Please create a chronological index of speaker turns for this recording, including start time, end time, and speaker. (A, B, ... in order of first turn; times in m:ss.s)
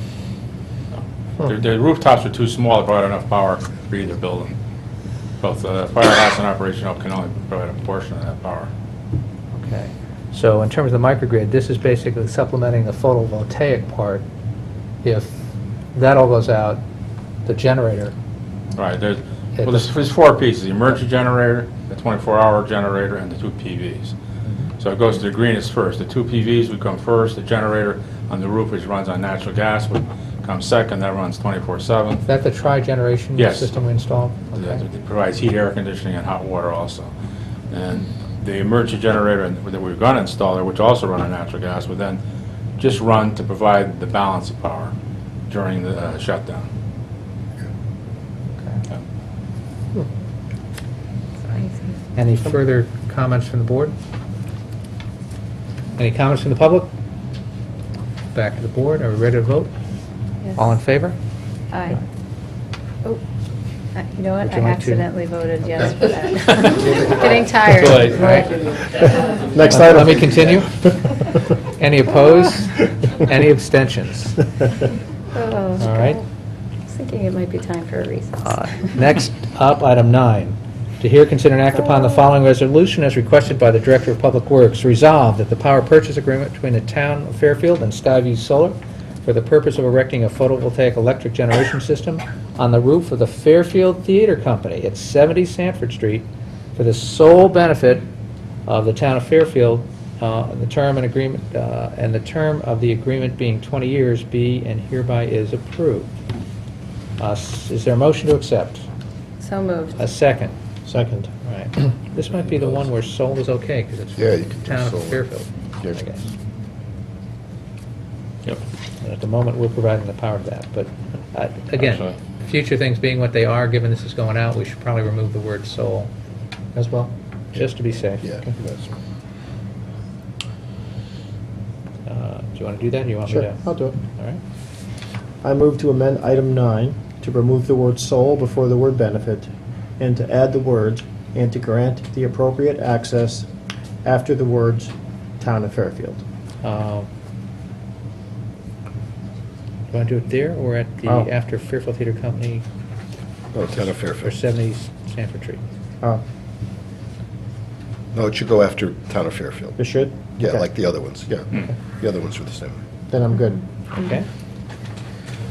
0:00.9-0:04.5 A
0:05.4-0:08.7 A
0:09.5-0:14.2 B
0:15.0-0:16.8 B
0:17.4-0:18.1 B
0:18.7-0:24.1 A
0:19.6-0:19.8 B
0:24.8-0:32.2 A
0:32.2-0:34.8 B
0:33.4-0:33.8 A
0:34.5-0:37.1 A
0:37.7-0:42.2 A
0:42.8-0:44.9 A
0:45.5-0:46.7 A
0:51.4-0:52.0 C
0:52.1-0:53.9 B
0:56.0-0:56.9 B
0:58.3-0:59.7 B
1:00.6-1:01.2 B
1:01.7-1:02.0 C
1:03.9-1:08.5 C
1:04.4-1:05.0 B
1:07.7-1:08.2 A
1:08.1-1:08.5 B
1:09.0-1:11.2 D
1:09.7-1:10.7 B
1:11.8-1:14.4 B
1:15.3-1:16.2 C
1:15.8-1:16.2 B
1:16.8-1:18.6 C
1:18.4-1:36.2 B
1:36.8-1:38.0 B
1:38.7-1:46.1 B
1:47.2-1:48.8 B
1:49.4-1:50.1 C
1:50.0-1:50.5 B
1:50.8-1:51.3 D
1:51.4-1:56.3 B
1:54.2-1:55.2 E
1:59.0-2:06.1 B
2:01.8-2:02.2 A
2:06.7-2:08.4 B
2:08.2-2:08.9 E
2:12.0-2:14.4 B
2:13.3-2:14.0 D
2:15.4-2:23.5 D
2:24.0-2:26.2 D
2:26.6-2:27.1 B
2:29.9-2:32.6 B
2:33.5-2:34.3 E
2:33.8-2:35.6 B
2:38.1-2:39.8 E
2:39.8-2:40.6 D
2:40.4-2:42.8 E
2:43.1-2:43.6 D
2:44.0-2:44.2 B